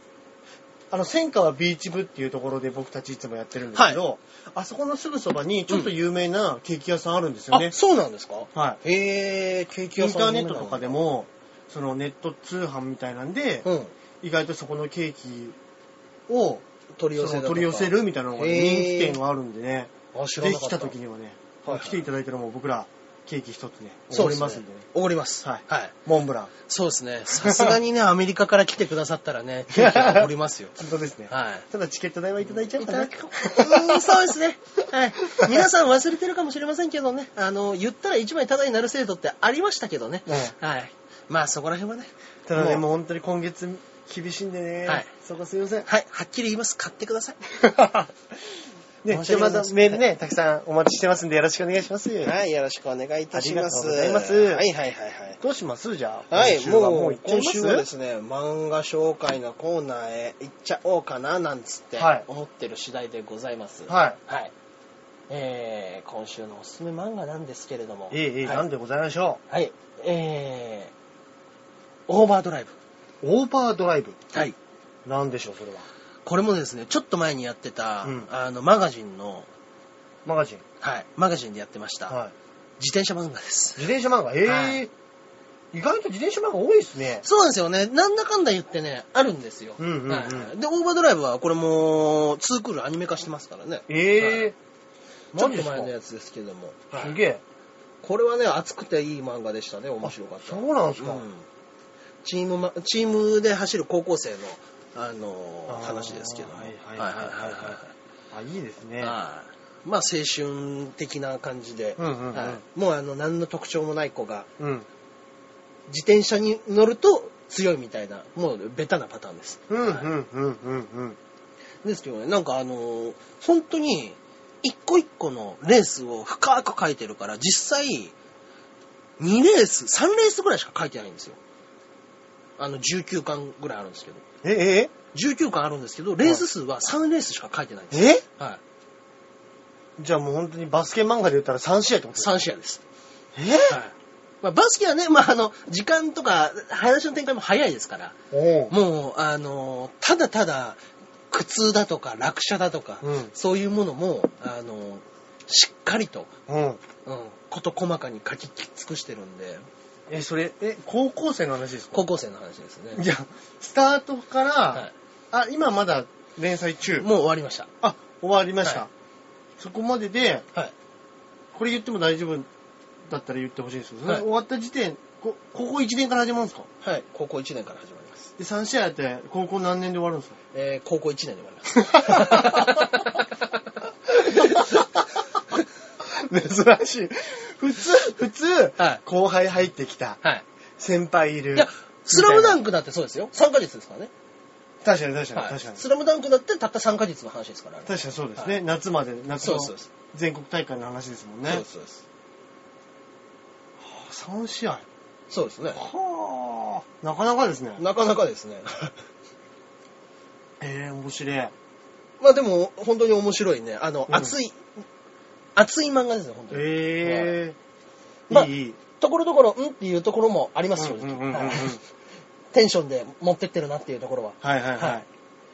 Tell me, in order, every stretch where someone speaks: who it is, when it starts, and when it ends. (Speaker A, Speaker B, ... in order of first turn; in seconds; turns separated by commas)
Speaker A: 0.9-7.7, Speaker B: 3.7-4.0, Speaker B: 7.5-11.0, Speaker A: 9.9-13.7, Speaker B: 13.6-13.9, Speaker A: 14.2-15.6, Speaker A: 16.3-24.9, Speaker B: 16.9-19.2, Speaker B: 20.1-20.9, Speaker B: 21.6-22.1, Speaker B: 24.1-25.9, Speaker A: 25.4-26.5, Speaker B: 26.7-30.8, Speaker A: 27.3-27.8, Speaker A: 29.7-34.2, Speaker B: 31.3-31.6, Speaker B: 32.4-42.8, Speaker A: 40.3-40.5, Speaker A: 42.5-45.9, Speaker B: 45.8-47.4, Speaker A: 47.5-48.1, Speaker A: 49.0-52.3, Speaker B: 49.1-50.0, Speaker B: 52.2-55.4, Speaker A: 53.3-54.6, Speaker A: 55.4-57.9, Speaker B: 56.3-64.5, Speaker A: 62.0-62.2, Speaker A: 63.9-64.2, Speaker B: 65.3-68.6, Speaker A: 68.1-69.4, Speaker B: 69.5-70.9, Speaker B: 72.1-72.8, Speaker A: 73.2-74.2, Speaker A: 75.0-75.9, Speaker B: 76.2-79.5, Speaker A: 80.2-80.6, Speaker B: 80.8-82.2, Speaker A: 82.1-82.3, Speaker B: 82.8-83.9, Speaker A: 83.8-84.9, Speaker B: 84.4-84.8, Speaker A: 85.7-87.2, Speaker B: 87.2-94.5, Speaker A: 89.8-90.5, Speaker A: 93.9-94.5, Speaker B: 95.3-97.2, Speaker A: 95.3-95.9, Speaker A: 96.9-97.4, Speaker B: 98.0-101.5, Speaker A: 100.0-101.2, Speaker B: 102.2-107.9, Speaker A: 105.7-107.8, Speaker A: 108.3-109.2, Speaker B: 109.0-114.5, Speaker A: 112.0-112.6, Speaker A: 114.6-114.9, Speaker B: 115.9-120.1, Speaker A: 119.7-121.2, Speaker B: 121.8-128.1, Speaker B: 129.2-131.4, Speaker B: 132.6-134.2, Speaker A: 134.4-134.9, Speaker B: 135.1-138.6, Speaker A: 137.9-138.2, Speaker A: 140.0-142.3, Speaker B: 142.2-142.8, Speaker A: 143.3-143.8, Speaker B: 143.7-148.2, Speaker A: 148.3-148.7, Speaker B: 148.7-156.3, Speaker A: 153.0-153.3, Speaker A: 156.5-156.8, Speaker B: 157.0-159.7, Speaker A: 160.1-162.0, Speaker B: 161.9-163.0, Speaker A: 162.9-167.1, Speaker B: 167.0-167.7, Speaker A: 167.8-168.9, Speaker A: 169.6-170.4, Speaker A: 171.5-172.5, Speaker A: 173.1-176.7, Speaker B: 176.8-178.3, Speaker A: 178.4-180.3, Speaker B: 180.5-183.6, Speaker A: 181.8-182.9, Speaker A: 184.2-185.0, Speaker B: 184.2-184.9, Speaker A: 186.0-190.2, Speaker A: 190.8-192.6, Speaker B: 191.5-194.1, Speaker A: 194.8-195.8, Speaker B: 195.3-198.6, Speaker A: 197.8-201.6, Speaker B: 199.4-199.9, Speaker B: 201.4-202.0, Speaker A: 203.8-204.8, Speaker B: 205.3-205.8, Speaker A: 205.8-207.8, Speaker B: 207.8-208.9, Speaker A: 210.6-211.5, Speaker B: 212.2-214.7, Speaker B: 215.5-217.4, Speaker A: 216.5-217.6, Speaker A: 218.3-218.8, Speaker B: 218.3-221.8, Speaker A: 220.8-221.8, Speaker B: 222.5-225.0, Speaker A: 224.4-225.1